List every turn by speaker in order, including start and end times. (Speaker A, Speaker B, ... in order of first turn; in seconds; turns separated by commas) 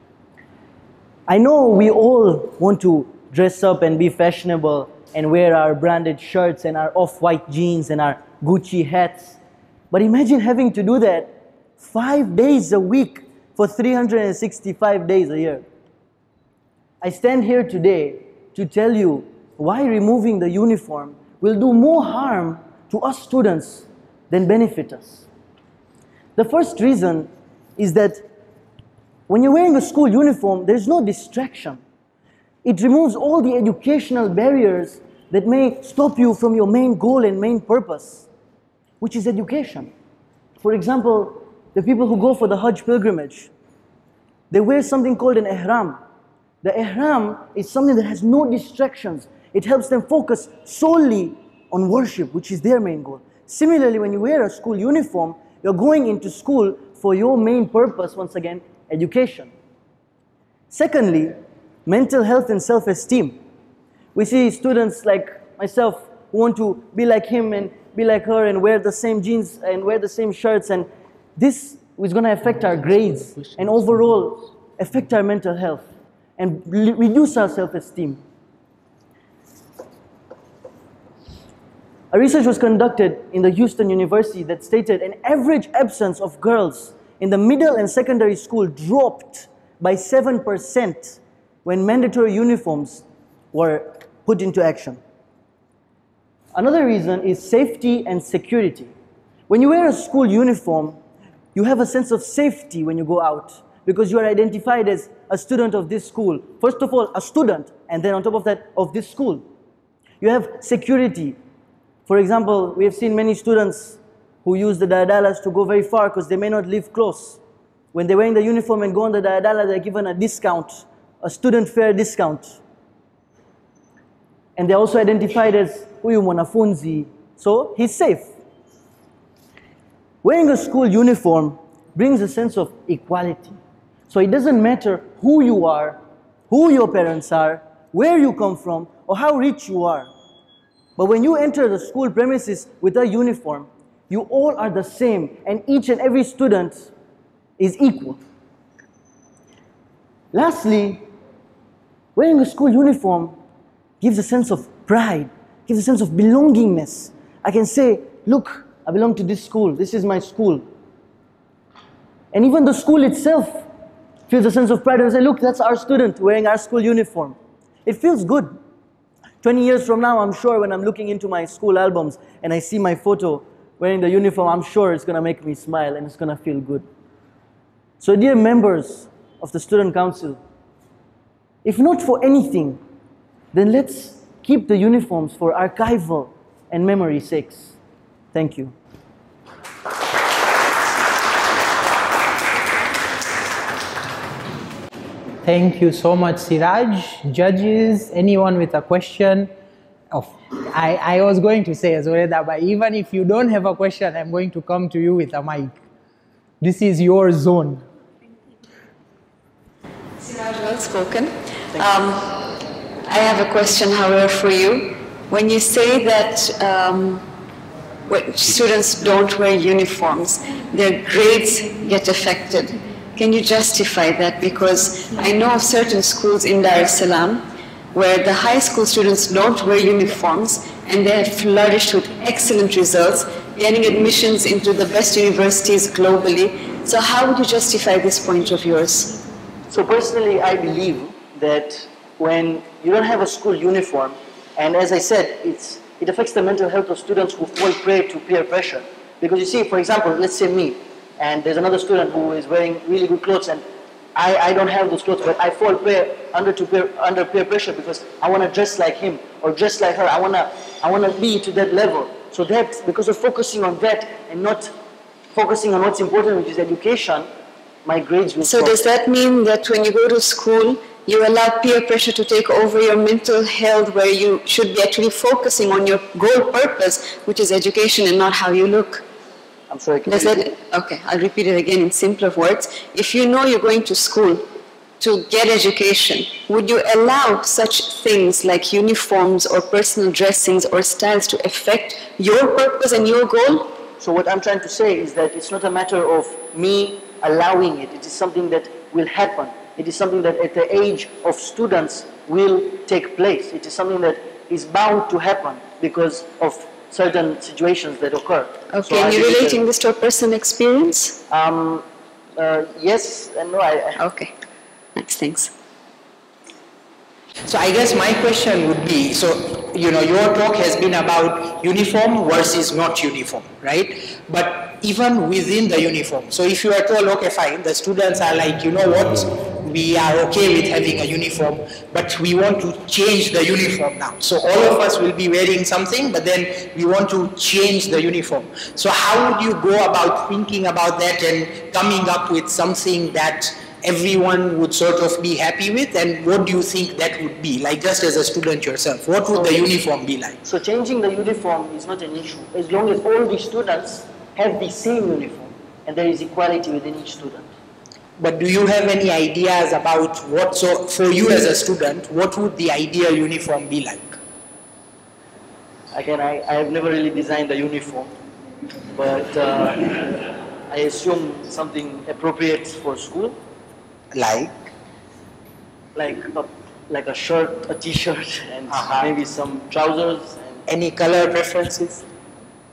Speaker A: 1.3-9.4, Speaker A: 9.9-15.7, Speaker A: 17.0-25.3, Speaker A: 26.4-28.3, Speaker A: 29.3-31.8, Speaker A: 32.6-38.3, Speaker A: 39.0-39.9, Speaker A: 40.6-43.5, Speaker A: 44.5-46.0, Speaker A: 46.6-59.5, Speaker A: 60.7-63.4, Speaker A: 64.1-78.2, Speaker A: 82.1-95.0, Speaker A: 96.5-98.9, Speaker A: 99.5-101.0, Speaker A: 101.5-109.4, Speaker A: 110.2-111.4, Speaker A: 112.1-117.4, Speaker A: 117.9-122.6, Speaker A: 124.6-128.3, Speaker A: 130.2-133.6, Speaker A: 134.1-140.1, Speaker A: 141.0-146.9, Speaker A: 147.6-148.2, Speaker A: 150.3-151.1, Speaker A: 152.2-153.4, Speaker A: 154.0-160.7, Speaker A: 162.3-163.7, Speaker A: 164.3-168.6, Speaker A: 169.4-176.9, Speaker A: 178.0-180.4, Speaker A: 181.6-182.8, Speaker A: 183.5-187.8, Speaker A: 188.3-188.7, Speaker B: 195.4-199.5, Speaker B: 200.1-205.8, Speaker B: 206.6-207.8, Speaker C: 210.2-212.4, Speaker C: 213.0-217.3, Speaker C: 218.1-239.1, Speaker A: 239.7-253.6, Speaker A: 254.2-264.7, Speaker A: 265.3-267.3, Speaker A: 267.9-268.9, Speaker C: 268.4-279.0, Speaker A: 279.7-280.5, Speaker C: 280.1-284.5, Speaker C: 285.0-293.7, Speaker A: 294.0-309.6, Speaker C: 308.7-311.2, Speaker A: 311.3-311.8, Speaker A: 312.4-314.0, Speaker C: 314.0-314.3, Speaker C: 315.0-315.5, Speaker B: 317.5-350.4, Speaker A: 349.3-349.7, Speaker A: 350.4-357.5, Speaker B: 358.2-364.2, Speaker A: 365.9-368.1, Speaker A: 368.9-373.4, Speaker B: 374.1-374.7, Speaker A: 375.9-380.6, Speaker B: 378.7-379.1, Speaker B: 380.7-382.0